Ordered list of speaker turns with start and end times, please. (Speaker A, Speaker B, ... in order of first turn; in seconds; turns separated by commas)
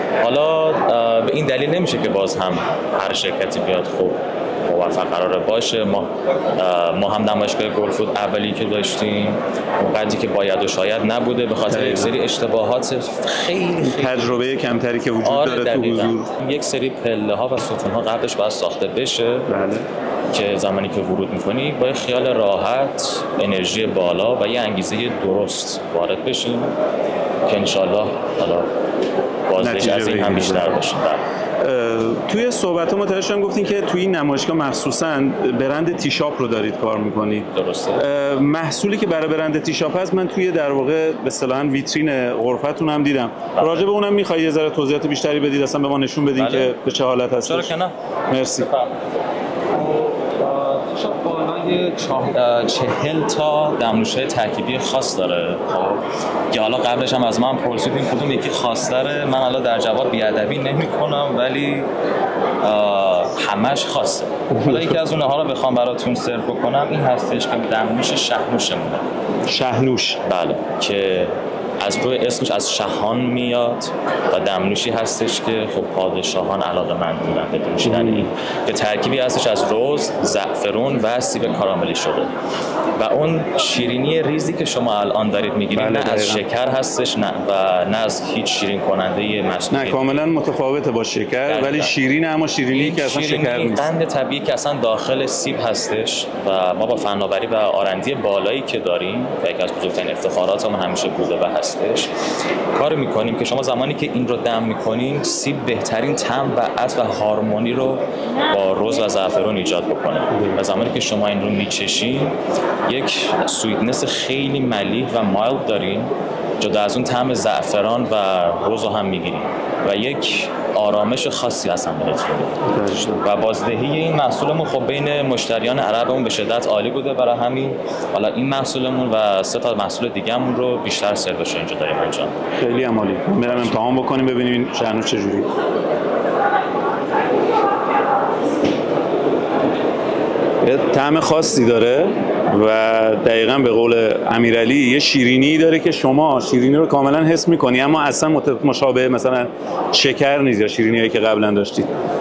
Speaker A: 0.2-14.6, Speaker B: 11.7-12.1, Speaker B: 13.8-16.3, Speaker A: 15.2-19.5, Speaker B: 19.5-19.9, Speaker A: 20.3-26.7, Speaker A: 27.5-28.7, Speaker A: 29.5-31.2, Speaker B: 29.6-30.8, Speaker B: 31.6-47.7, Speaker A: 37.5-38.0, Speaker A: 43.5-43.9, Speaker A: 46.3-46.7, Speaker A: 47.4-47.9, Speaker B: 48.3-48.7, Speaker A: 48.6-49.0, Speaker A: 49.7-61.9, Speaker A: 62.6-69.0, Speaker B: 64.5-65.0, Speaker B: 69.5-70.2, Speaker A: 70.2-82.3, Speaker B: 77.8-78.3, Speaker A: 83.0-90.2, Speaker B: 85.7-86.4, Speaker B: 89.7-93.9, Speaker A: 91.5-91.9, Speaker A: 92.7-102.1, Speaker A: 102.7-112.3, Speaker A: 112.9-132.3, Speaker B: 122.6-123.2, Speaker B: 132.6-135.5, Speaker A: 133.4-133.9, Speaker B: 140.6-151.9